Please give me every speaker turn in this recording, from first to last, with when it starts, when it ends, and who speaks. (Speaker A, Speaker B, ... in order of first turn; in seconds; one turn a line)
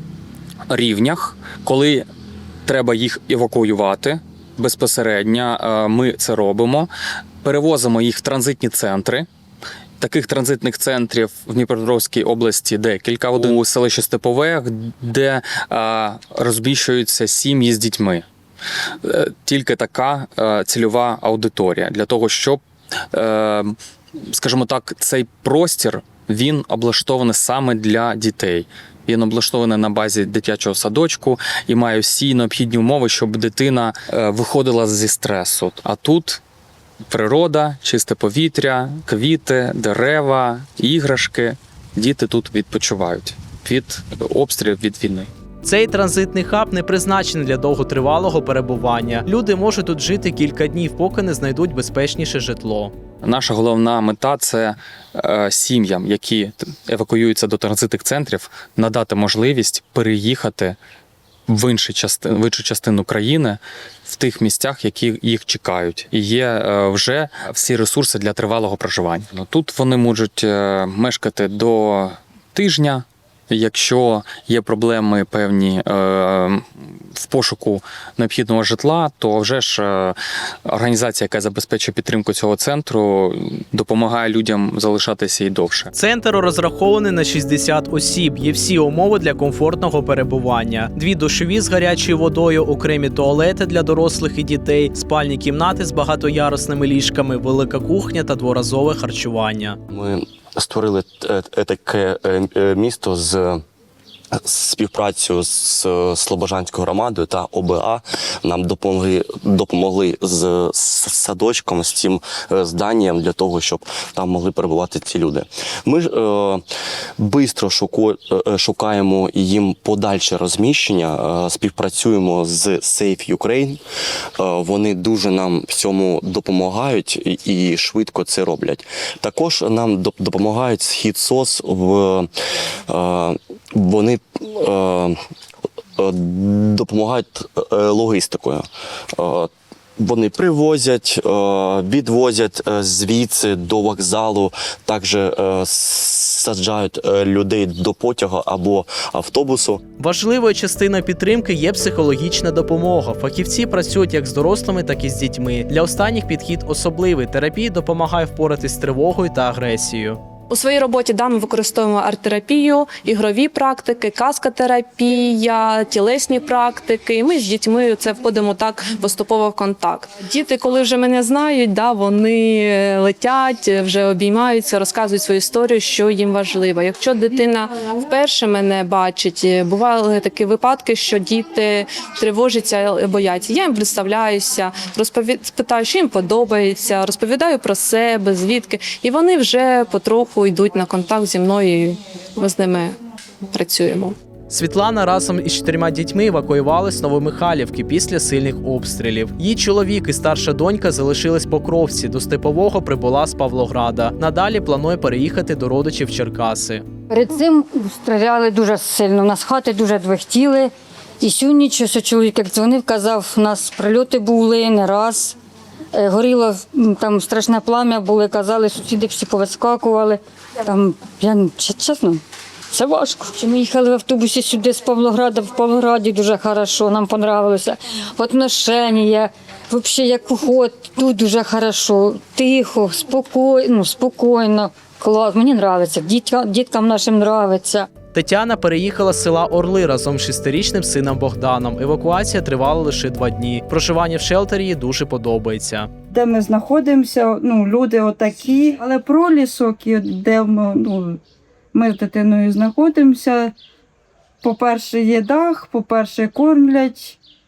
Speaker A: 0.7-2.1
Speaker A: 2.7-6.9
Speaker A: 7.4-9.3
Speaker A: 10.0-18.2
Speaker A: 19.0-22.6
Speaker A: 23.1-23.8
Speaker A: 24.3-36.4
Speaker A: 37.1-45.3
Speaker B: 45.6-52.9
Speaker A: 53.2-60.8
Speaker A: 61.5-76.6
Speaker A: 77.2-85.9
Speaker B: 85.9-99.8
Speaker C: 99.9-103.6
Speaker C: 104.4-116.6
Speaker C: 117.2-123.8
Speaker C: 124.4-132.3
Speaker C: 132.9-135.2
Speaker C: 136.0-149.8
Speaker B: 150.0-160.2
Speaker D: 160.5-193.0
Speaker D: 193.5-194.2
Speaker B: 194.5-206.8
Speaker E: 207.1-215.4
Speaker E: 215.9-237.9
Speaker B: 238.1-245.9
Speaker F: 246.1-251.2
Speaker F: 251.7-253.6
Speaker F: 254.4-257.2